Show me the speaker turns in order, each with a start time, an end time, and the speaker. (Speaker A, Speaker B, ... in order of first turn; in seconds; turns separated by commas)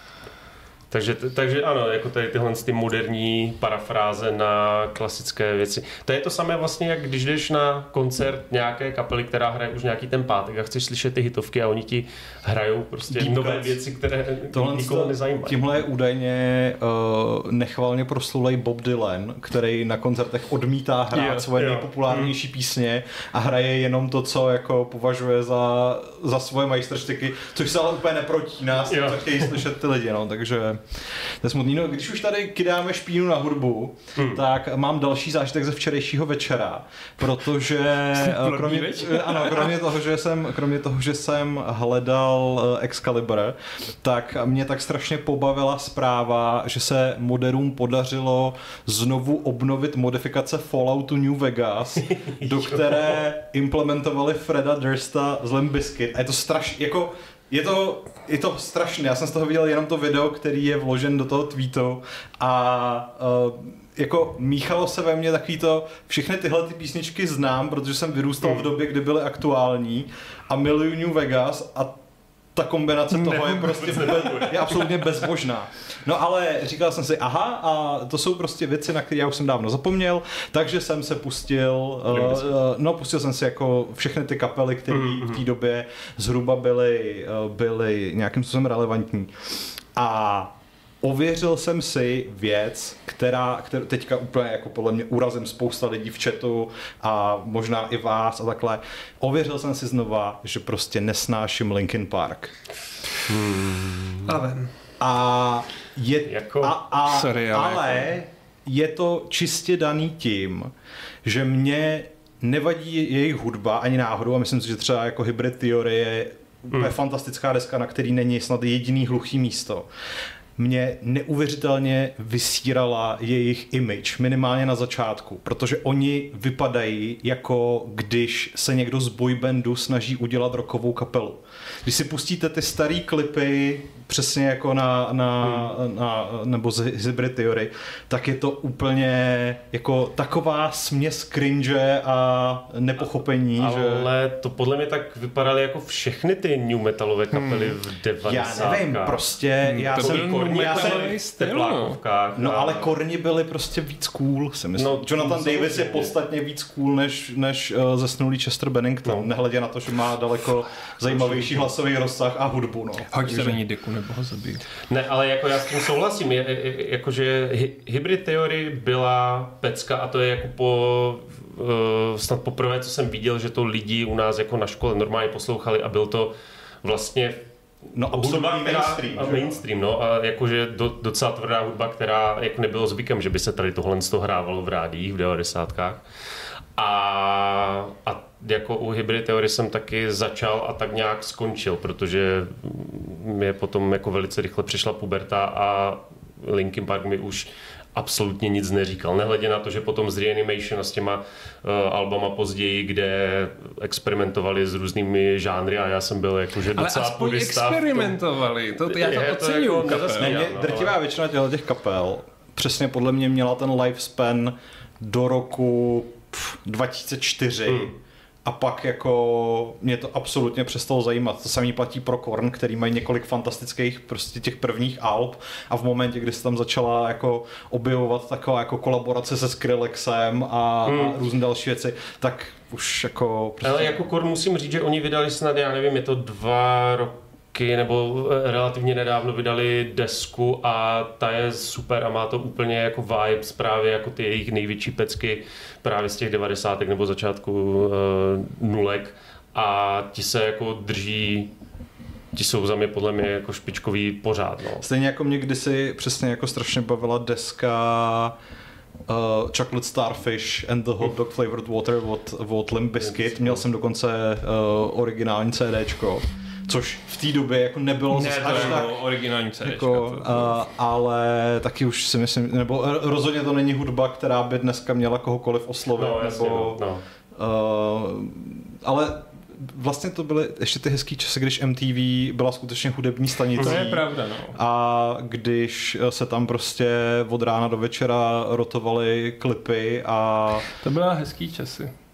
Speaker A: 0.9-15.6, Speaker B: 13.1-13.8, Speaker B: 14.5-72.0, Speaker C: 21.1-21.5, Speaker A: 21.6-22.3, Speaker A: 28.9-29.6, Speaker A: 34.2-34.4, Speaker C: 38.1-39.8, Speaker A: 52.0-53.2, Speaker B: 72.5-102.5, Speaker C: 73.1-73.8, Speaker A: 73.5-75.0, Speaker A: 82.1-82.5, Speaker A: 84.9-85.4, Speaker A: 103.3-104.3, Speaker C: 104.3-104.7, Speaker B: 105.0-110.7, Speaker A: 106.3-106.8, Speaker C: 107.1-108.1, Speaker B: 111.2-119.9, Speaker B: 120.6-144.1, Speaker A: 135.4-135.8, Speaker A: 143.6-149.2, Speaker C: 147.3-147.8, Speaker B: 148.2-151.1, Speaker C: 149.7-152.0, Speaker A: 149.8-152.9, Speaker B: 152.4-163.6, Speaker A: 154.8-156.1, Speaker A: 161.1-161.7, Speaker C: 163.1-164.7, Speaker A: 164.9-177.4, Speaker B: 177.9-179.6, Speaker A: 178.0-186.0, Speaker A: 186.8-208.2, Speaker C: 206.7-210.4, Speaker A: 208.8-210.9, Speaker B: 210.1-217.9, Speaker A: 217.7-217.9, Speaker B: 218.4-233.9, Speaker A: 230.8-231.2, Speaker A: 233.6-251.5, Speaker A: 252.3-254.9, Speaker B: 254.8-258.4, Speaker B: 259.1-269.0, Speaker A: 263.1-263.6, Speaker C: 268.1-270.6, Speaker A: 268.4-268.8, Speaker B: 269.6-276.8, Speaker A: 275.9-277.0, Speaker B: 277.4-290.7, Speaker A: 283.6-283.9, Speaker C: 283.6-284.6, Speaker C: 290.8-291.9